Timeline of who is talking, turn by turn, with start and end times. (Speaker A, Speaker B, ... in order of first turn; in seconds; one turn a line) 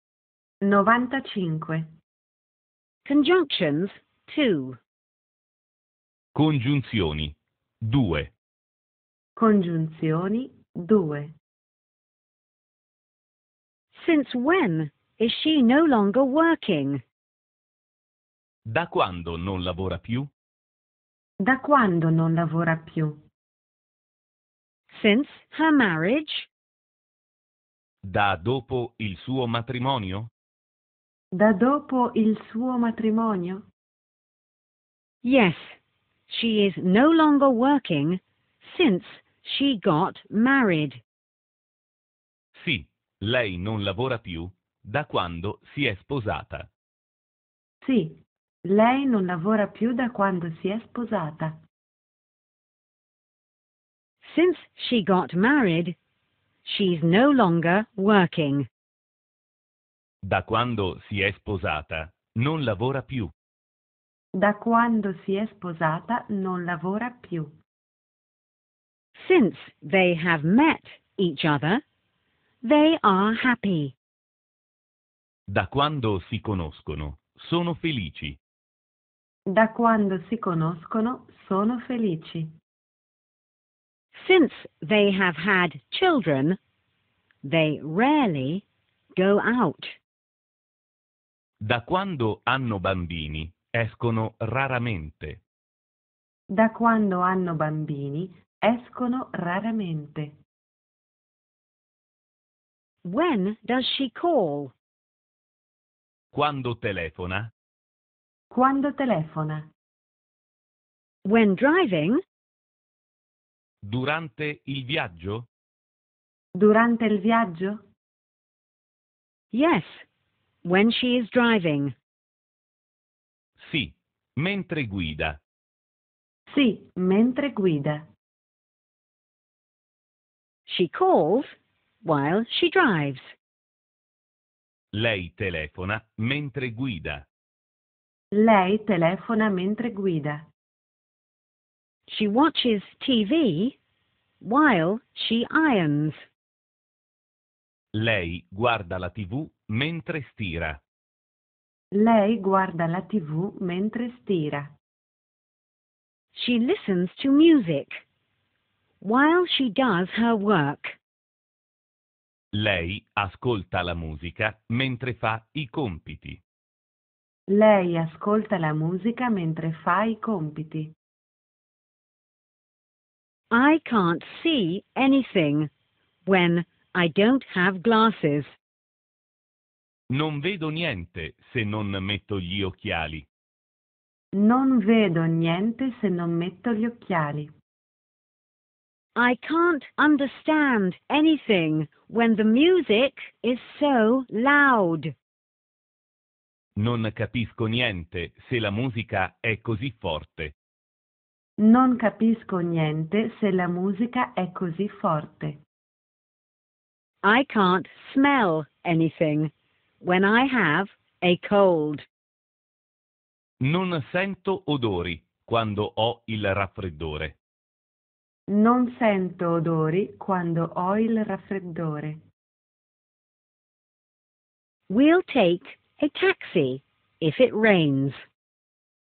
Speaker A: 0.6-1.9
Speaker B: 3.0-4.8
Speaker C: 6.3-8.3
Speaker A: 9.3-11.3
Speaker B: 13.9-17.0
Speaker C: 18.6-20.3
Speaker A: 21.4-23.2
Speaker B: 24.9-26.5
Speaker C: 28.0-30.3
Speaker A: 31.3-33.7
Speaker B: 35.2-35.7
Speaker B: 36.3-41.0
Speaker C: 42.5-46.7
Speaker A: 47.8-51.6
Speaker B: 54.2-56.0
Speaker B: 56.6-58.7
Speaker C: 60.2-63.3
Speaker A: 64.3-67.6
Speaker B: 69.1-71.8
Speaker B: 72.6-73.9
Speaker C: 75.5-78.4
Speaker A: 79.5-82.5
Speaker B: 84.1-86.6
Speaker B: 87.4-88.6
Speaker B: 89.1-89.9
Speaker C: 91.6-95.4
Speaker A: 96.5-100.4
Speaker B: 103.0-104.7
Speaker C: 106.3-107.5
Speaker A: 108.5-109.7
Speaker B: 111.2-112.2
Speaker C: 113.8-115.5
Speaker A: 116.5-117.8
Speaker B: 119.5-120.0
Speaker B: 120.6-121.9
Speaker C: 123.6-125.4
Speaker A: 126.5-128.1
Speaker B: 130.7-133.3
Speaker C: 134.9-137.3
Speaker A: 138.3-140.5
Speaker B: 142.1-143.8
Speaker B: 144.4-146.2
Speaker C: 147.9-150.8
Speaker A: 151.9-154.7
Speaker B: 156.3-158.0
Speaker B: 159.0-160.9
Speaker C: 162.5-166.4
Speaker A: 167.5-170.9
Speaker B: 173.5-175.7
Speaker B: 176.2-178.5
Speaker C: 180.1-183.3
Speaker A: 184.3-187.5
Speaker B: 189.2-195.1
Speaker C: 196.8-200.5
Speaker A: 201.6-205.6
Speaker B: 207.2-212.1
Speaker C: 213.6-217.4
Speaker A: 218.5-222.2
Speaker B: 224.9-228.2